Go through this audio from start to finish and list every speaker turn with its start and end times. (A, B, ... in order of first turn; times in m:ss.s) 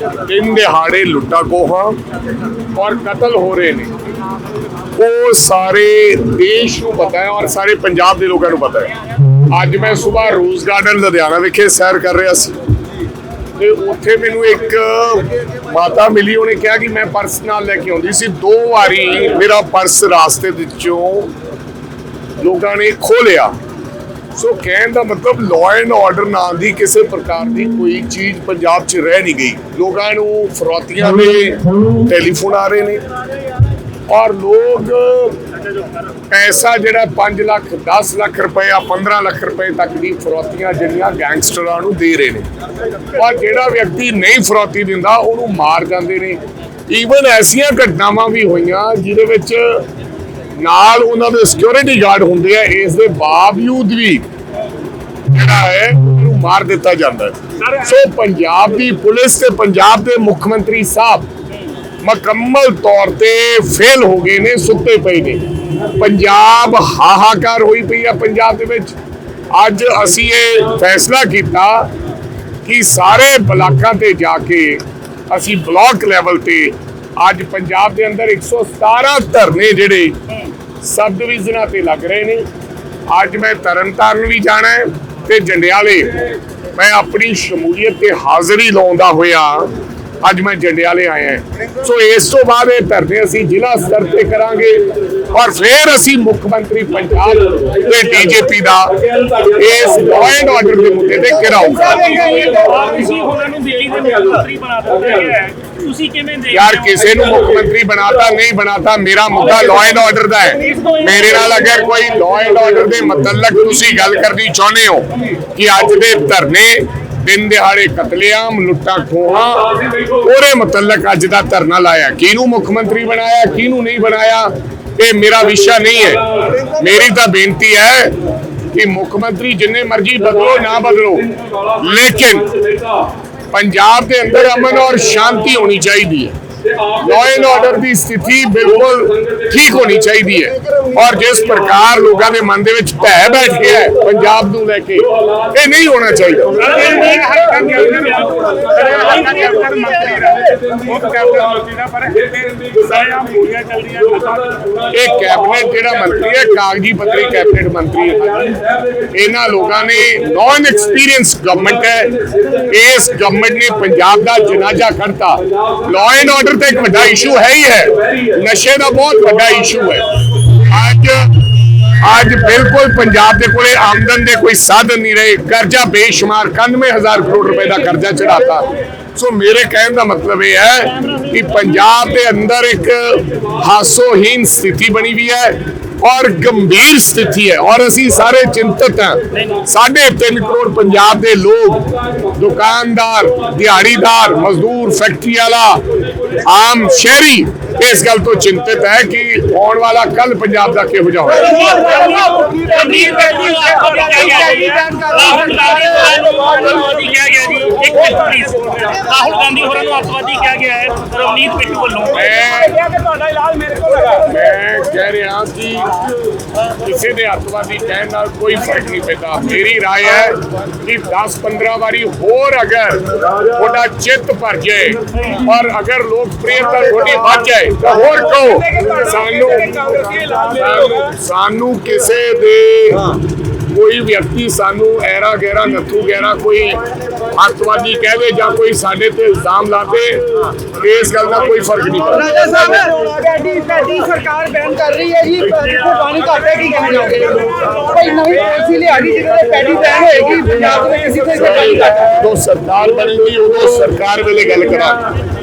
0:00.2-0:02.0 A
0:02.7-0:03.9 A
0:05.0-0:08.9 A
0:09.5-0:12.6 A
0:13.6-0:21.3 A
0:22.4-0:23.5 A
0:24.3-0:33.0 A
0:34.1-0:35.4 A
0:36.3-0:42.5 A
0:43.1-0:49.8 A
0:50.5-0:54.2 A
0:55.3-1:01.3 A
1:02.0-1:09.0 A
1:09.5-1:11.9 A
1:12.6-1:20.2 A
1:20.8-1:22.4 A
1:23.1-1:26.2 A
1:26.7-1:29.7 A
1:30.2-1:42.4 A
1:41.9-1:42.9 B
1:42.1-1:47.0 C
1:46.5-2:08.2 A
2:08.7-2:12.6 A
2:13.5-2:26.9 A
2:26.6-2:34.6 C
2:34.9-2:51.4 A
2:52.0-3:21.7 A
3:21.5-3:32.3 C
3:21.6-3:26.8 B
3:32.1-3:32.8 A
3:32.8-3:34.1 B
3:34.1-3:36.0 A
3:36.6-3:56.8 A
3:57.3-4:02.4 A
4:02.2-4:12.1 B
4:11.4-4:15.0 A